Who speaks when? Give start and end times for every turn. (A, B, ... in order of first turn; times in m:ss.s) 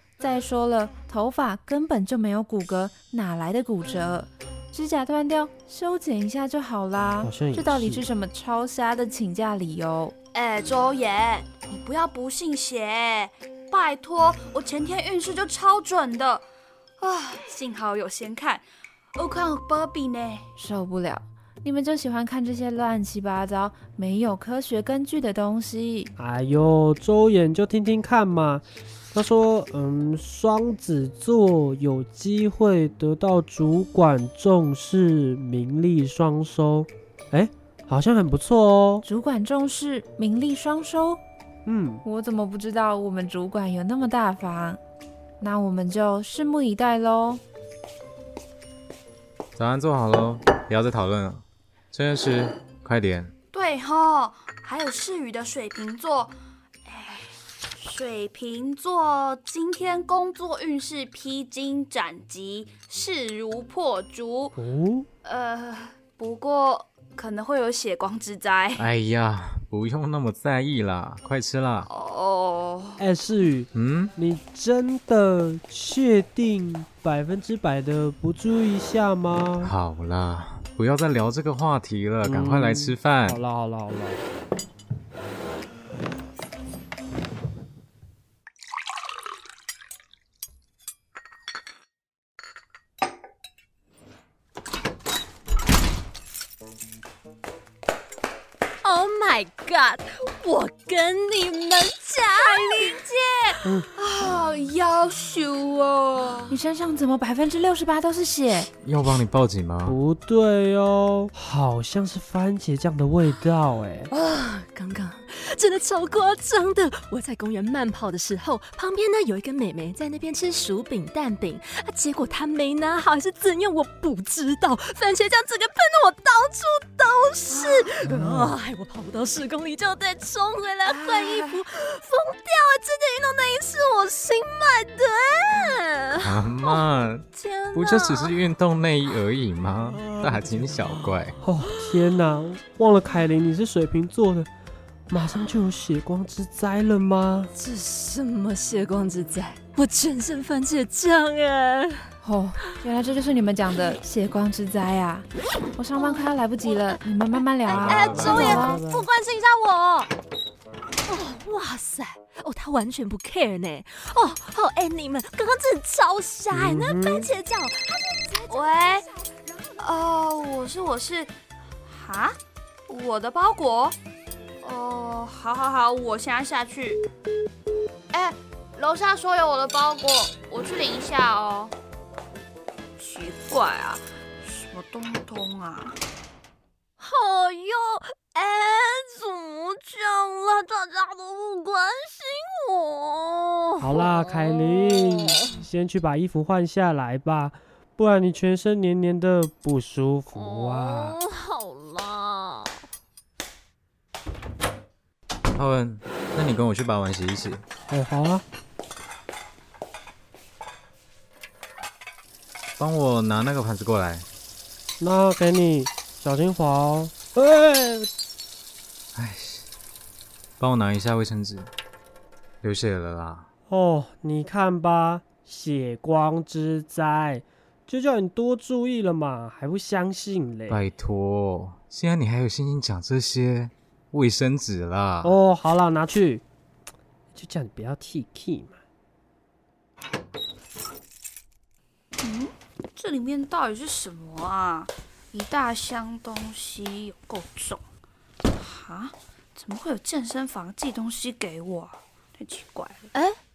0:00.2-0:10.2 A
0:07.2-0:08.1 B
0:10.3-0:16.5 C
0:17.0-0:18.6 C
0:19.2-0:20.5 C
0:20.6-0:26.1 A
0:26.2-0:39.0 B
0:39.0-0:41.2 A
0:41.7-0:42.0 B
0:42.0-0:44.8 A
0:45.4-0:47.4 A
0:49.6-0:53.3 D
0:53.5-0:56.4 C
0:56.9-1:04.6 C
1:04.6-1:05.1 B
1:05.2-1:08.9 C
1:08.8-1:11.9 D
1:11.8-1:13.0 C
1:13.0-1:19.7 B
1:13.7-1:14.1 D
1:19.6-1:23.4 D
1:22.2-1:24.2 B
1:38.8-1:43.0 E
1:42.4-1:46.5 C
1:46.5-1:48.7 A
1:48.8-1:50.0 D
1:49.8-1:54.1 B
1:54.1-2:16.8 E
2:07.5-2:07.9 C
2:10.9-2:11.5 C
2:16.2-2:21.4 D
2:17.3-2:18.4 E
2:21.4-2:24.5 B
2:21.6-2:22.0 E
2:25.1-2:27.5 B
2:27.5-2:32.1 E
2:32.2-2:38.8 A
2:36.0-2:36.9 E
2:37.6-2:40.1 E
2:38.1-2:38.5 D
2:38.2-2:39.1 B
2:41.0-2:49.2 E
2:46.5-2:47.3 B
2:48.5-2:49.0 C
2:49.8-2:51.3 C
2:51.9-2:54.0 C
2:54.6-2:57.0 C
2:58.1-3:01.8 C
3:03.0-3:06.0 C
3:07.0-3:15.3 E
3:13.8-3:21.2 B
3:20.3-3:22.8 E
3:25.5-3:27.6 D
3:27.9-3:28.4 B
3:32.8-3:34.3 D
3:35.0-3:38.1 B
3:39.2-3:39.7 D
3:40.6-3:41.7 D
3:42.6-3:43.5 D
3:43.7-3:50.8 B
3:50.7-3:55.4 D
3:55.2-3:56.4 B
3:57.4-3:58.8 B
4:02.2-4:07.8 C
4:08.6-4:13.0 C
4:13.1-4:13.4 E